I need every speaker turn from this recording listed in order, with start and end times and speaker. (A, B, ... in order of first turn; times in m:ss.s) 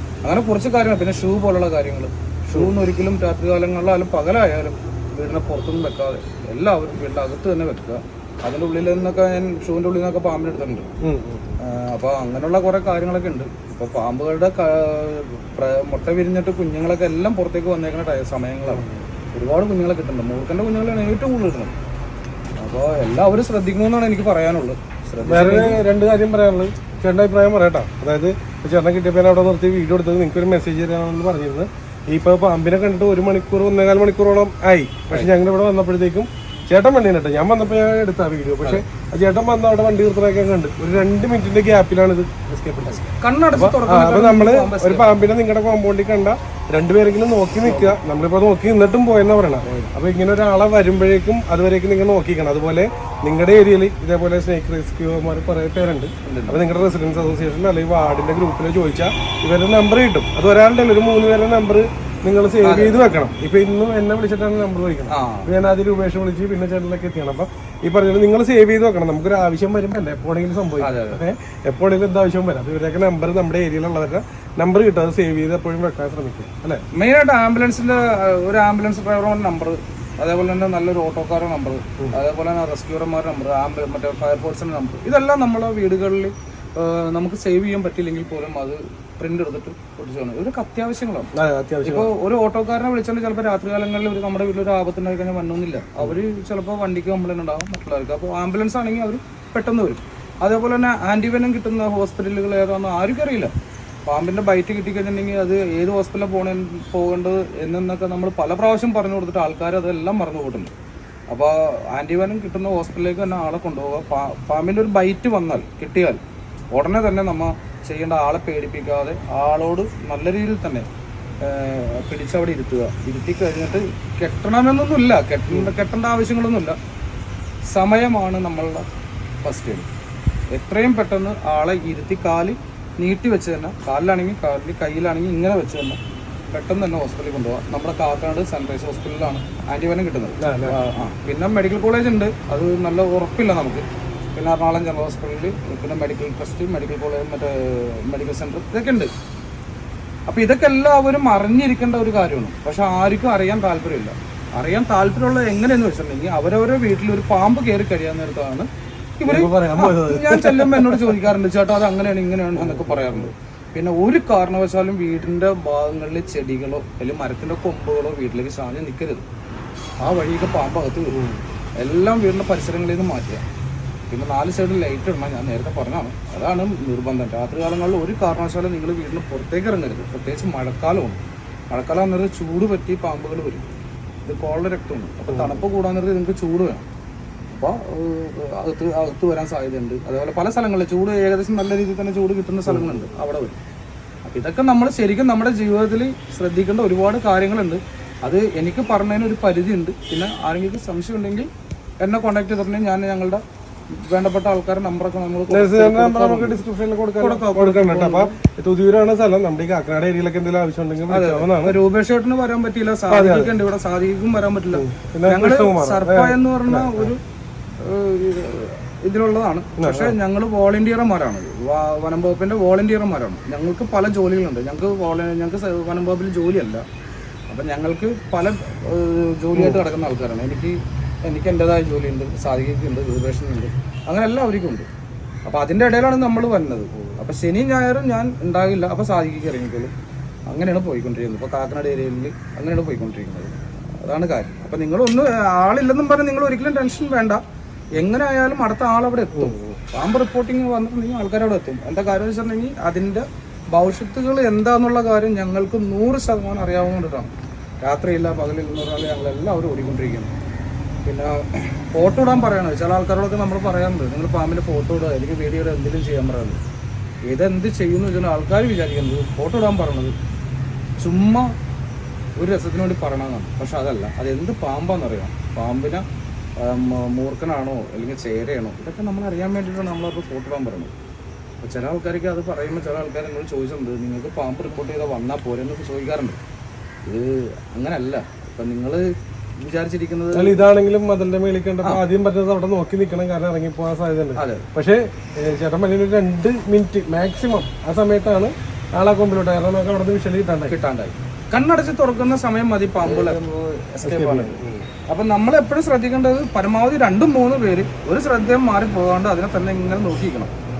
0:00.2-0:10.9 A
0:11.0-0:11.5 B
0:11.6-0:21.7 A
0:18.7-0:19.0 B
0:22.6-0:25.8 A
0:25.2-1:16.8 B
0:42.9-0:45.2 A
0:47.6-0:48.0 A
0:56.2-0:56.6 A
1:02.6-1:03.0 A
1:05.1-1:05.5 A
1:10.8-1:11.2 A
1:16.9-1:31.3 A
1:31.3-1:32.1 B
1:31.8-1:43.5 A
1:44.0-1:50.7 A
1:51.3-1:56.2 A
1:56.7-2:00.9 A
2:01.4-2:06.8 A
2:07.7-2:08.8 A
2:09.4-2:09.9 A
2:10.5-2:29.1 A
2:20.4-2:20.8 B
2:30.3-2:38.7 A
2:39.2-2:49.2 A
2:39.2-2:41.2 B
2:42.6-2:43.3 B
2:50.0-2:51.2 A
2:51.1-2:51.4 B
2:51.8-2:53.4 A
2:54.1-3:01.2 A
3:01.7-3:03.6 A
3:04.2-3:06.8 A
3:05.3-3:05.7 B
3:07.5-3:13.6 A
3:12.7-3:13.0 B
3:14.2-3:21.5 A
3:22.0-3:26.6 A
3:25.5-3:31.8 B
3:27.2-3:28.3 A
3:31.1-3:37.2 A
3:33.1-3:33.6 B
3:34.7-3:37.1 B
3:37.8-3:46.8 A
3:39.8-3:40.2 B
3:47.5-3:54.9 A
3:49.5-3:49.8 B
3:55.4-3:59.9 A
4:00.5-4:07.4 A
4:07.9-4:17.3 A
4:09.3-4:09.8 B
4:17.8-4:20.3 A
4:21.0-4:26.6 A
4:27.2-4:30.1 A
4:31.0-4:31.5 A
4:32.4-4:36.0 A
4:36.6-4:40.9 A
4:41.6-4:46.4 A
4:47.0-4:50.6 A
4:50.3-5:00.8 B
4:54.4-4:54.7 A
5:00.6-5:10.5 A
5:03.0-5:03.4 B
5:04.0-5:04.9 B